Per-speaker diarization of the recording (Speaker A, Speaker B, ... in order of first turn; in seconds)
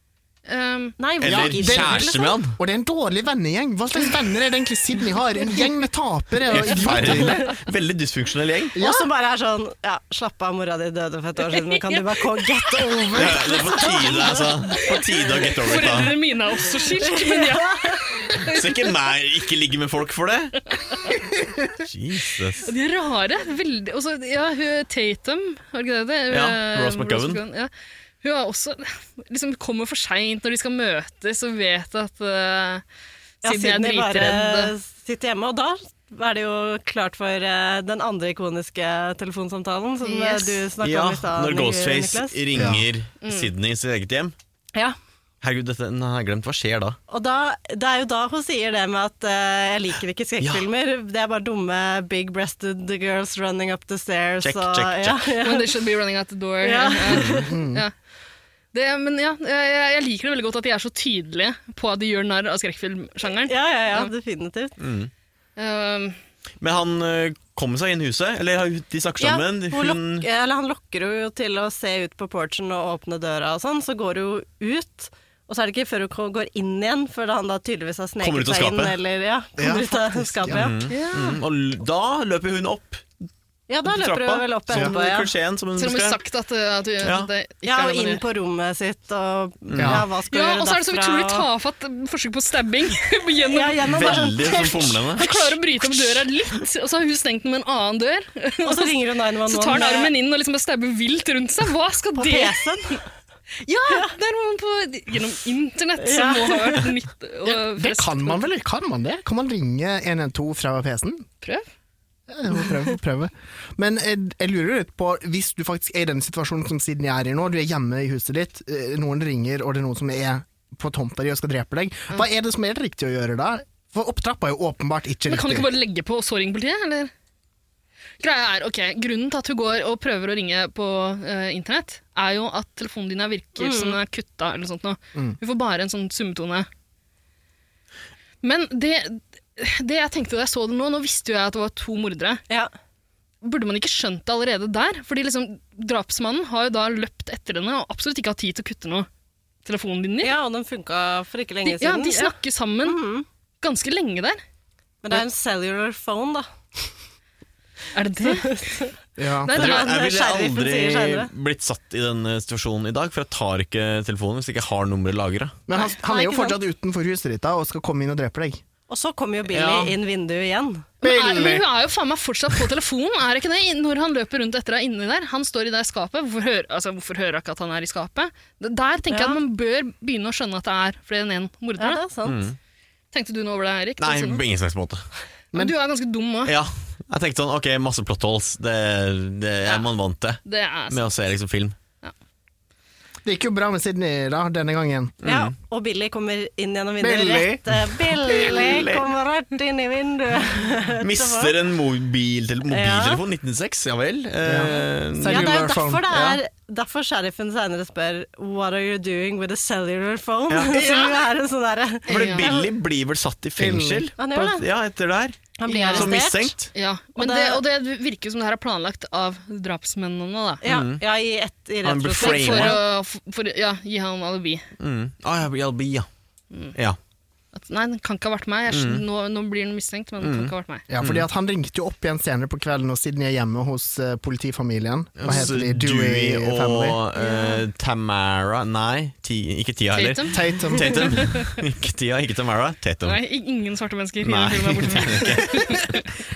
Speaker A: 0.5-1.0, 11.5-12.0, 13.7-18.9, 22.6-27.7, 28.2-32.8, 33.4-34.7, 40.0-40.6, 43.2-43.5, 55.4-57.9, 58.7-64.1, 65.6-66.2, 80.9-81.4, 85.8-88.2, 90.3-94.2, 95.2-102.6, 103.6-108.5, 111.4-111.7, 125.3-127.1, 128.2-136.7, 138.4-142.4, 143.4-149.1, 149.7-150.4, 151.7-153.0, 153.6-154.4, 157.9-158.9, 159.4-160.0, 166.1-166.4, 171.0-182.0, 183.1-184.4, 185.5-186.6, 190.4-191.0, 212.1-212.6, 215.7-216.2, 216.7-220.6, 222.2-224.7, 227.5-230.8, 237.2-237.6, 239.9-241.6, 243.0-246.1
Speaker B: 1.0-2.4, 7.1-7.4, 8.8-14.5, 15.8-16.1, 16.8-18.1, 33.4-42.4, 47.1-55.8, 56.6-57.5, 63.5-64.8, 69.2-80.9, 83.7-85.3, 87.6-91.5, 93.5-95.3, 98.6-100.1, 102.2-103.0, 103.9-104.1, 106.0-106.9, 133.6-134.0, 150.2-153.3, 155.0-156.9, 158.2-158.9, 159.5-161.3, 166.1-166.5, 168.9-170.9, 179.1-179.4, 181.8-182.5, 195.2-201.6, 202.7-203.2, 205.2-212.7, 214.2-214.7, 215.6-216.6, 217.2-217.6, 220.6-222.8
Speaker C: 1.2-2.6, 6.5-8.8, 13.1-16.1, 18.3-20.7, 21.7-22.7, 26.3-27.4, 40.8-44.4, 45.4-47.0, 50.4-50.7, 54.4-55.3, 57.1-57.4, 64.8-65.1, 66.6-70.3, 78.2-79.0, 80.5-83.1, 83.8-86.2, 87.0-87.3, 89.7-90.1, 93.8-95.5, 159.6-165.6, 182.2-182.6, 184.0-185.1, 186.4-191.8, 195.2-195.5, 198.1-199.1, 201.0-206.4, 210.5-211.1, 212.1-216.7, 220.6-221.0, 221.8-222.8, 224.8-226.1, 228.7-229.0, 230.2-231.3, 235.2-243.2, 244.2-246.0
Speaker D: 1.3-7.5, 8.8-9.1, 42.5-42.9, 57.5-57.8, 79.6-80.7, 89.8-90.1, 107.5-111.2, 112.3-125.7, 159.2-159.5, 165.7-168.6, 169.5-170.0, 171.0-171.7, 193.2-195.1, 197.0-197.8, 204.4-206.1, 213.6-214.1, 230.9-237.0, 240.3-241.1